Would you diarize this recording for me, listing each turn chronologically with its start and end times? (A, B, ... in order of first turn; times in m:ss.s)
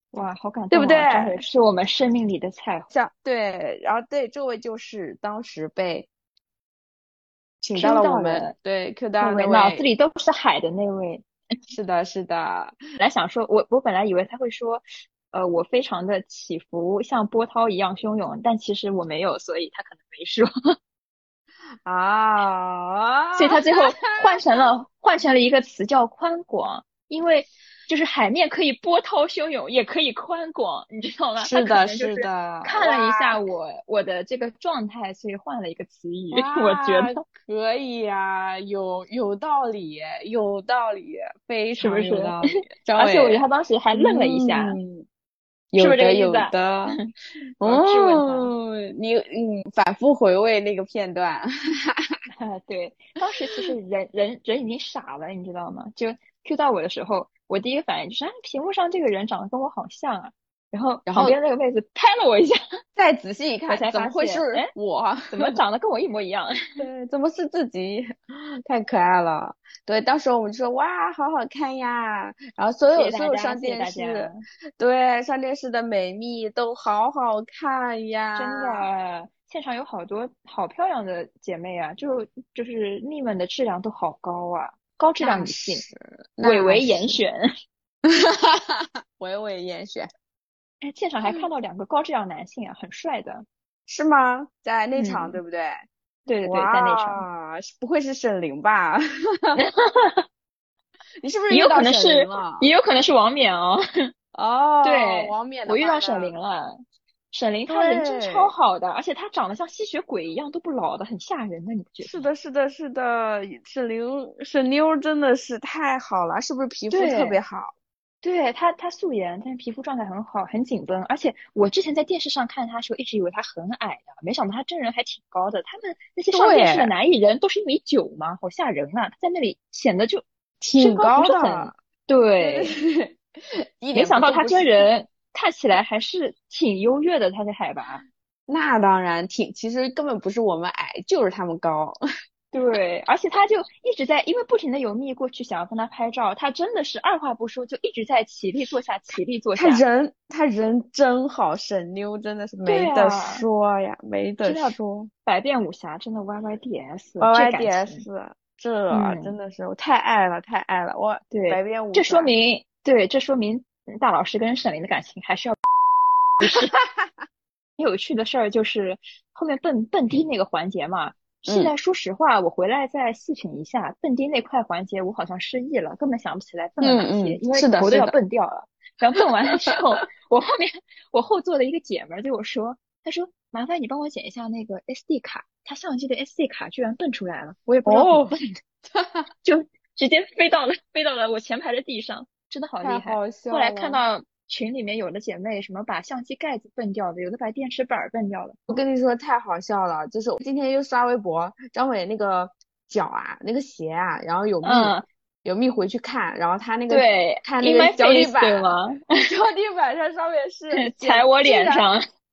0:00.1-0:02.9 A
0:00.7-0:01.4 B
0:02.9-0:06.1 B
0:07.6-0:09.9 B
0:07.7-0:08.5 A
0:09.2-0:11.2 A
0:11.7-0:12.8 B
0:13.0-0:20.5 A
0:21.8-0:24.7 B
0:23.3-0:37.2 A
0:31.4-0:33.4 B
0:36.3-0:45.0 B
0:41.8-0:44.8 A
0:45.7-0:47.0 B
0:45.7-0:47.0 A
0:47.6-0:48.5 A
0:47.6-0:51.9 B
0:52.4-1:02.6 A
1:01.0-1:01.4 B
1:03.0-1:05.6 B
1:03.7-1:04.7 A
1:05.3-1:06.9 A
1:06.8-1:18.9 B
1:12.9-1:14.4 A
1:18.3-1:25.8 A
1:25.2-1:27.2 B
1:26.4-1:27.4 A
1:28.0-1:30.1 B
1:30.8-1:33.4 A
1:31.2-1:31.5 B
1:33.9-1:35.8 B
1:34.9-1:35.4 A
1:36.2-1:37.2 A
1:36.4-1:39.6 B
1:39.6-1:40.2 A
1:41.2-1:42.7 B
1:41.5-1:44.1 A
1:44.3-1:46.3 B
1:44.8-1:46.7 A
1:47.3-1:52.3 A
1:47.7-1:48.5 B
1:52.0-1:57.7 B
1:56.9-1:57.4 A
1:58.2-2:12.7 A
2:06.3-2:06.9 B
2:10.6-2:11.7 B
2:12.4-2:13.2 B
2:13.8-2:14.8 B
2:13.9-2:18.0 A
2:18.5-2:22.0 B
2:22.5-2:29.8 A
2:29.6-2:35.1 B
2:32.6-2:33.4 A
2:34.4-2:38.0 A
2:37.2-2:42.3 B
2:38.9-2:39.3 A
2:41.3-2:45.6 A
2:46.4-2:46.7 A
2:46.4-2:46.8 B
2:47.8-3:08.3 A
2:51.5-2:51.7 B
2:56.8-2:58.2 B
2:59.5-3:00.0 B
3:07.8-3:09.2 B
3:09.4-3:18.6 A
3:12.8-3:14.0 B
3:18.7-3:31.9 B
3:24.6-3:25.0 A
3:26.9-3:29.0 A
3:30.7-3:32.0 A